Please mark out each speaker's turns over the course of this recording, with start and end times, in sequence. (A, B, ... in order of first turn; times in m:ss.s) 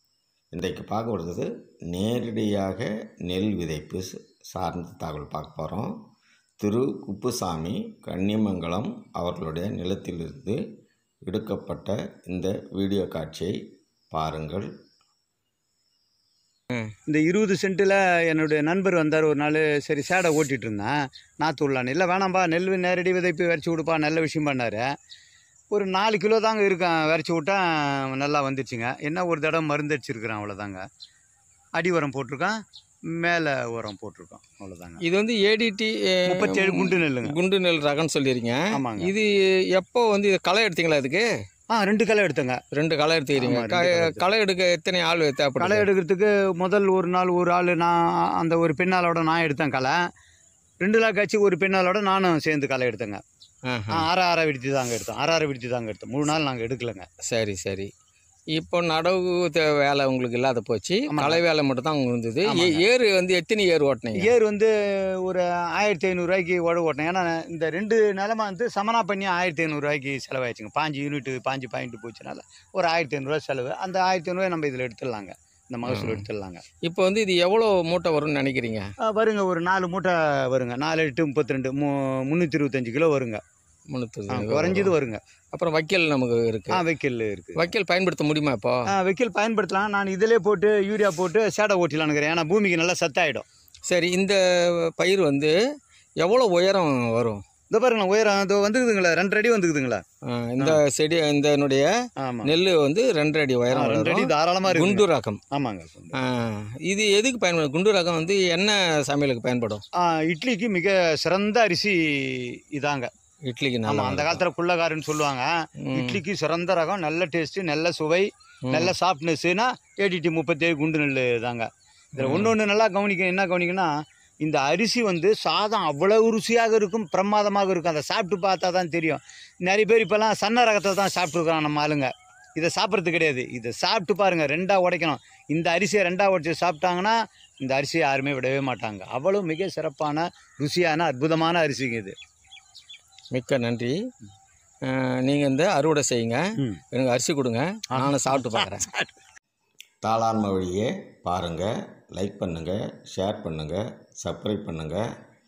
0:00.5-0:06.0 A
0:06.6-0:10.6 A
0:11.2-0:13.6 A
0:14.1-0:14.7 A
0:17.1-0:24.9 B
0:25.7-0:30.8 B
0:31.8-0:32.6 B
0:33.1-0:35.0 B
0:35.0-0:41.2 C
0:36.3-0:37.4 B
0:38.7-0:39.1 B
0:41.7-0:42.6 B
0:42.7-0:45.9 C
0:43.4-0:44.2 B
0:45.6-0:50.0 B
0:50.8-0:53.2 B
0:53.7-0:54.1 C
0:53.9-0:57.1 B
0:57.2-0:57.9 C
0:58.6-1:04.3 C
1:01.1-1:01.4 B
1:02.4-1:02.8 B
1:04.2-1:04.7 B
1:05.2-1:16.6 B
1:15.8-1:16.2 C
1:16.8-1:18.8 C
1:19.0-1:23.4 B
1:23.9-1:24.9 C
1:24.3-1:25.2 B
1:25.5-1:26.8 C
1:26.7-1:27.7 B
1:27.6-1:28.8 C
1:28.9-1:33.4 B
1:33.9-1:35.5 C
1:36.2-1:37.4 C
1:37.7-1:40.0 B
1:40.3-1:41.9 C
1:42.2-1:42.5 B
1:42.4-1:45.4 C
1:43.7-1:46.2 B
1:46.1-1:49.8 C
1:50.0-1:53.1 B
1:53.4-1:54.4 C
1:53.8-2:03.9 B
1:55.8-1:56.2 C
1:58.7-1:58.9 C
2:02.2-2:02.5 C
2:04.4-2:22.1 B
2:23.3-2:23.9 C
2:24.8-2:26.4 C
2:26.9-2:28.9 C
2:27.9-2:29.1 B
2:30.0-2:35.0 A